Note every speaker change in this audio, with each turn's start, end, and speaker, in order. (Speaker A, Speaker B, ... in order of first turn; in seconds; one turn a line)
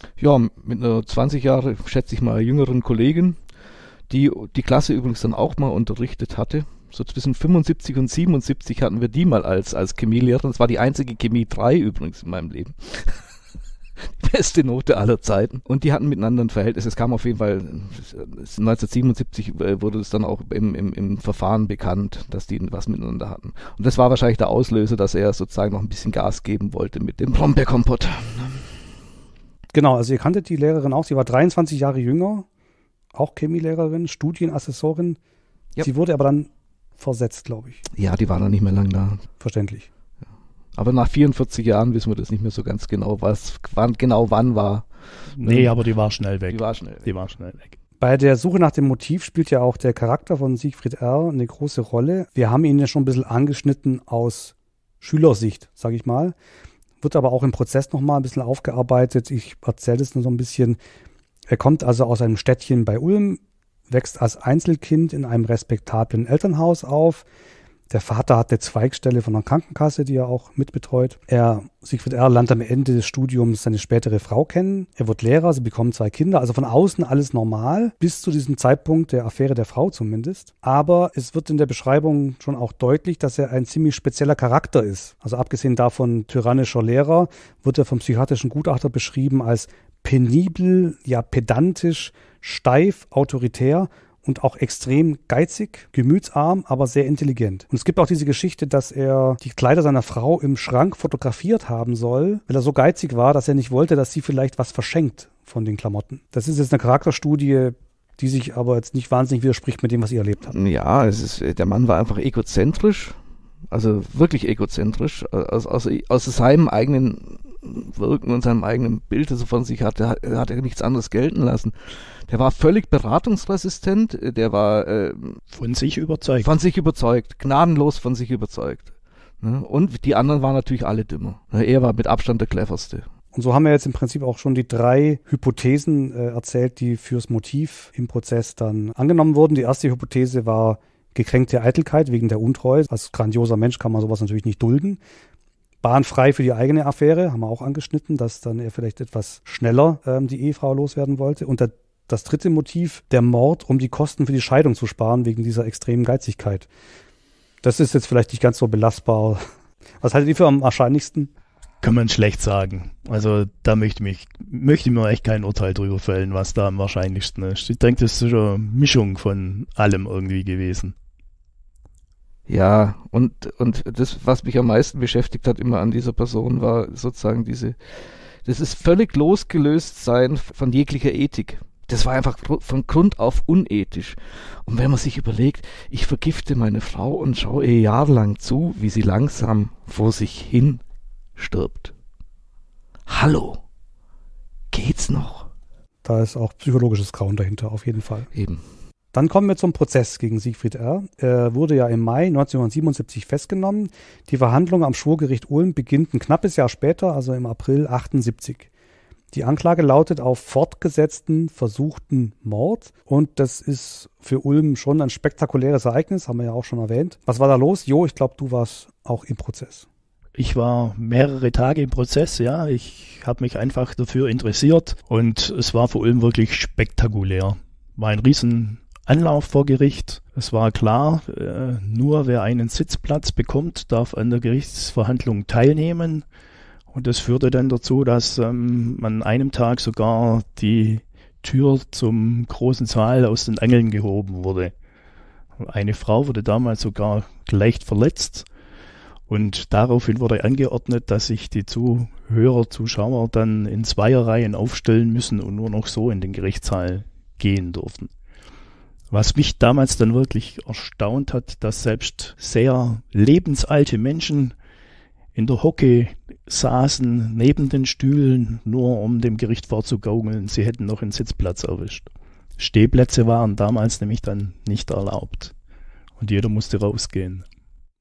Speaker A: 0.2-3.4
Speaker A: 4.1-13.2
Speaker A: 14.2-28.6
Speaker B: 29.7-32.5
Speaker B: 33.1-35.2
Speaker B: 35.8-37.8
Speaker A: 37.9-39.2
Speaker B: 39.4-39.9
Speaker A: 40.8-44.9
Speaker C: 45.4-47.7
Speaker A: 45.4-45.7
Speaker A: 46.5-47.1
Speaker B: 48.0-56.3
Speaker B: 57.0-60.8
Speaker B: 61.5-67.2
Speaker B: 67.9-110.5
Speaker A: 110.5-113.2
Speaker A: 113.7-125.4
Speaker C: 125.5-126.5
Speaker A: 126.4-133.0
Speaker B: 133.3-145.0
Speaker B: 145.8-156.7
Speaker B: 157.6-159.4
Speaker B: 160.0-161.3
Speaker C: 161.8-170.9
Speaker A: 172.5-190.8
Speaker A: 191.4-191.9
Speaker A: 193.1-193.6
Speaker A: 194.7-195.5
Speaker B: 196.0-198.3
Speaker A: 198.3-198.6
Speaker B: 199.1-208.7
Speaker B: 209.3-219.8
Speaker C: 220.4-236.2
Speaker C: 236.9-244.7
Speaker C: 245.6-248.4
Speaker C: 249.3-258.1
Speaker C: 259.1-264.5
Speaker C: 265.3-275.5
Speaker C: 276.2-277.4